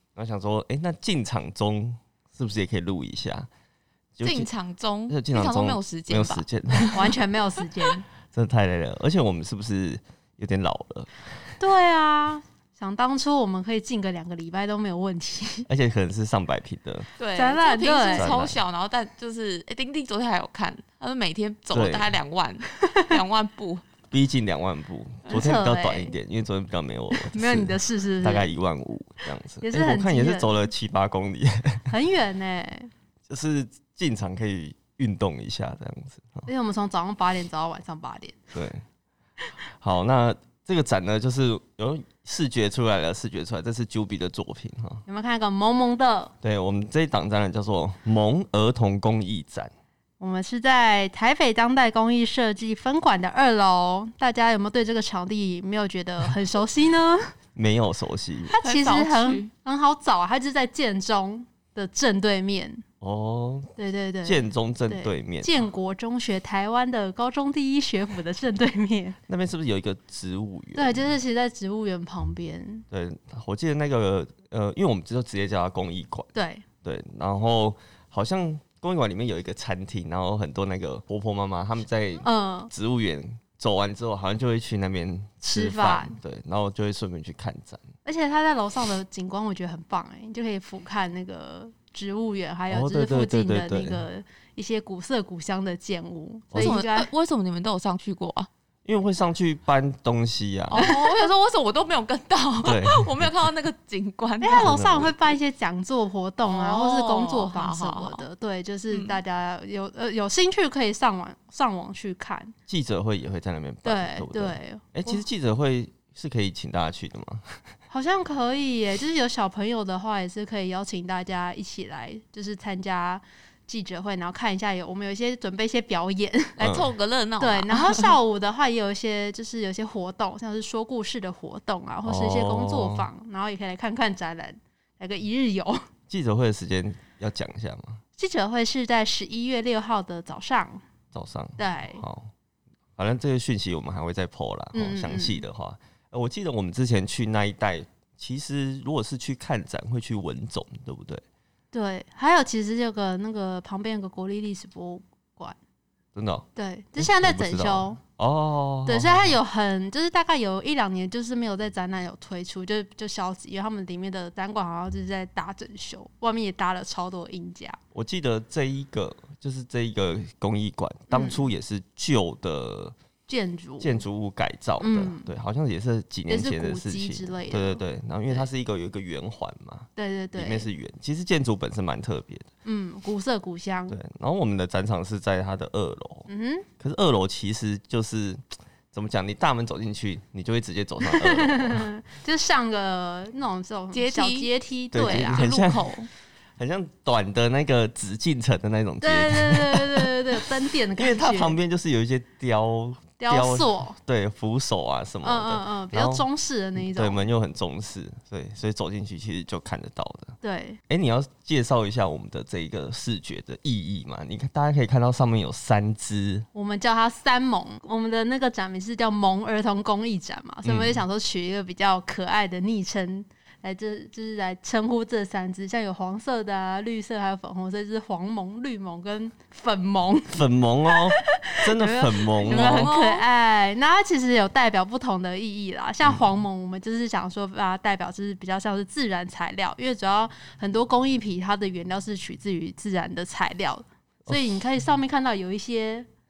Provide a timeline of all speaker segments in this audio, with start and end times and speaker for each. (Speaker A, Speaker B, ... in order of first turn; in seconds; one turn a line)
Speaker A: 0.2-3.5
Speaker A: 4.2-4.5
Speaker B: 4.2-7.0
Speaker A: 5.1-7.2
Speaker C: 6.9-8.0
Speaker A: 8.3-11.1
Speaker C: 11.6-15.7
Speaker A: 15.7-17.1
Speaker B: 17.2-23.9
Speaker C: 17.4-18.4
Speaker A: 18.1-18.6
Speaker A: 21.7-22.1
Speaker A: 24.1-31.9
Speaker C: 25.3-26.1
Speaker C: 27.1-28.5
Speaker C: 29.6-30.6
Speaker C: 31.9-32.9
Speaker A: 33.3-36.5
Speaker C: 36.5-38.5
Speaker A: 38.5-38.8
Speaker A: 39.7-45.0
Speaker C: 45.1-46.3
Speaker A: 46.4-49.7
Speaker C: 50.2-57.3
Speaker A: 57.5-58.5
Speaker C: 58.5-62.8
Speaker B: 58.6-59.5
Speaker A: 63.0-63.7
Speaker C: 63.8-69.2
Speaker A: 64.2-65.5
Speaker A: 69.3-71.2
Speaker C: 70.8-72.8
Speaker A: 72.9-76.3
Speaker C: 76.3-76.7
Speaker A: 76.8-87.8
Speaker C: 82.2-82.7
Speaker C: 85.4-86.2
Speaker C: 88.0-97.1
Speaker A: 92.7-94.0
Speaker A: 96.5-96.8
Speaker B: 96.6-98.5
Speaker A: 98.8-100.9
Speaker B: 100.7-104.7
Speaker C: 100.8-101.3
Speaker A: 102.6-103.3
Speaker C: 104.4-112.5
Speaker A: 104.6-105.3
Speaker B: 106.5-108.2
Speaker B: 108.9-109.2
Speaker A: 112.7-117.6
Speaker C: 113.8-115.2
Speaker C: 117.9-126.6
Speaker B: 126.6-128.1
Speaker A: 126.6-126.9
Speaker C: 127.4-135.8
Speaker A: 132.1-133.1
Speaker A: 136.1-138.0
Speaker C: 138.2-140.8
Speaker A: 141.1-142.3
Speaker C: 141.6-142.0
Speaker A: 143.0-151.2
Speaker C: 144.7-145.4
Speaker C: 151.7-155.6
Speaker A: 156.2-156.5
Speaker C: 156.6-158.0
Speaker A: 157.0-159.4
Speaker C: 158.9-167.8
Speaker A: 167.9-173.0
Speaker C: 171.1-171.5
Speaker C: 173.3-174.0
Speaker A: 173.8-182.5
Speaker C: 174.8-175.3
Speaker C: 176.3-178.5
Speaker C: 180.0-180.7
Speaker C: 182.7-184.0
Speaker A: 183.9-186.3
Speaker C: 186.3-186.7
Speaker A: 186.8-191.9
Speaker C: 191.1-195.5
Speaker B: 193.9-196.1
Speaker A: 194.9-195.9
Speaker A: 196.6-210.4
Speaker C: 199.0-201.6
Speaker C: 203.2-204.0
Speaker C: 205.2-207.2
Speaker C: 210.4-210.8
Speaker A: 210.9-216.5
Speaker C: 216.5-246.1
Speaker A: 220.7-221.0
Speaker A: 230.3-232.9
Speaker B: 232.4-233.2
Speaker A: 244.2-244.6